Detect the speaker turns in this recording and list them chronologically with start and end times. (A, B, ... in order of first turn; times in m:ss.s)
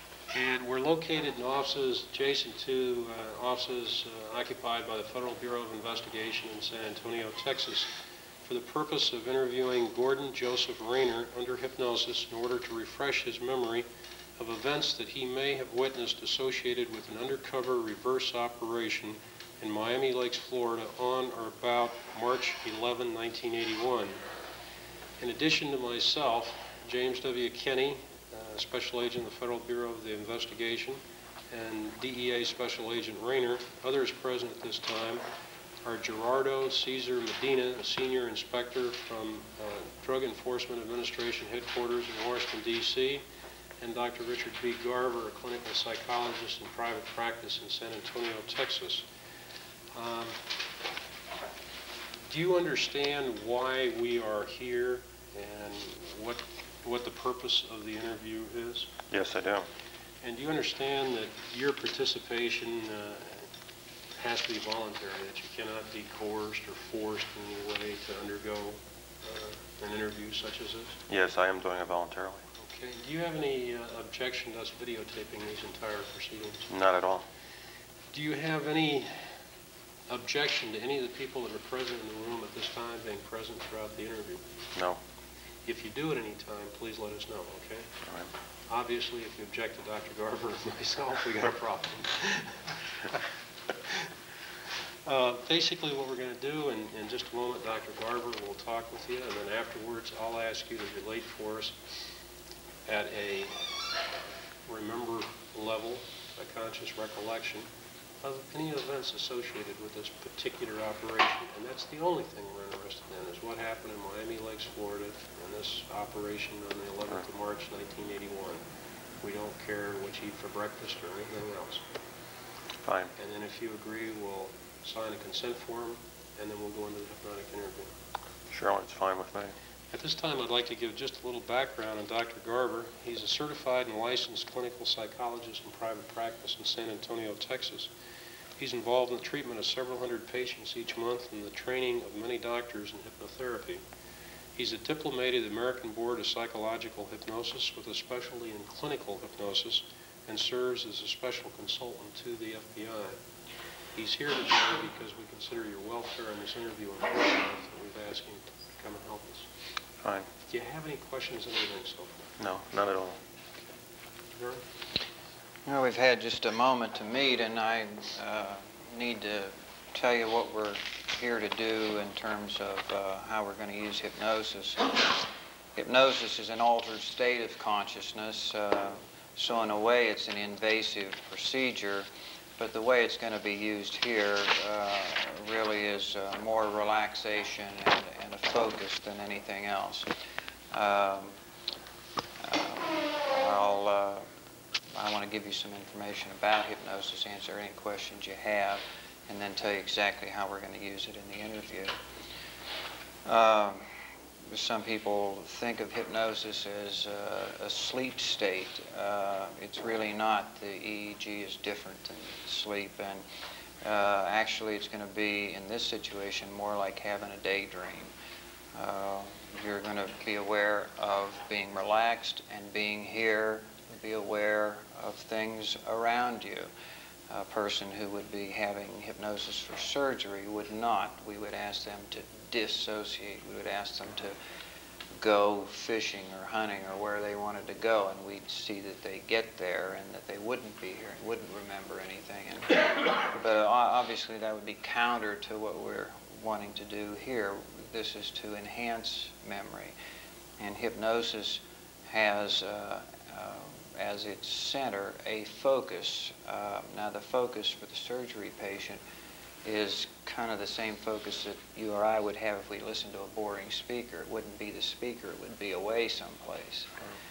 0:00.3-0:07.9 A
0:08.4-0:13.9 A
0:14.4-0:24.2 A
0:25.2-0:35.2 A
0:35.8-0:43.2 A
0:43.8-0:49.1 A
0:49.9-0:50.4 A
0:52.2-0:58.9 A
0:59.1-0:59.7 B
1:00.2-1:03.5 A
1:04.2-1:11.0 A
1:11.1-1:12.4 B
1:12.6-1:16.7 A
1:16.7-1:17.2 B
1:18.1-1:19.4 A
1:20.1-1:24.4 A
1:24.8-1:25.0 B
1:25.6-1:27.9 A
1:28.7-1:33.2 A
1:35.0-1:41.9 A
1:42.9-1:44.0 A
1:44.7-1:47.7 A
1:48.2-1:58.6 A
1:59.2-2:01.8 A
2:02.9-2:03.1 B
2:03.2-2:08.0 A
2:08.5-2:09.6 B
2:09.9-2:17.9 A
2:18.6-2:23.8 A
2:24.6-2:33.2 A
2:33.9-2:39.5 A
2:40.5-2:42.3 A
2:42.4-2:43.2 B
2:44.3-2:44.6 A
2:45.7-3:10.1 C
3:10.7-3:11.4 C
3:12.4-3:14.3 C
3:14.9-3:22.0 C
3:23.2-3:24.0 C
3:24.5-3:33.3 C
3:33.8-3:38.1 C
3:38.7-3:46.7 C
3:47.3-3:54.4 C
3:55.1-4:10.0 C
4:10.6-4:19.0 C
4:19.6-4:26.9 C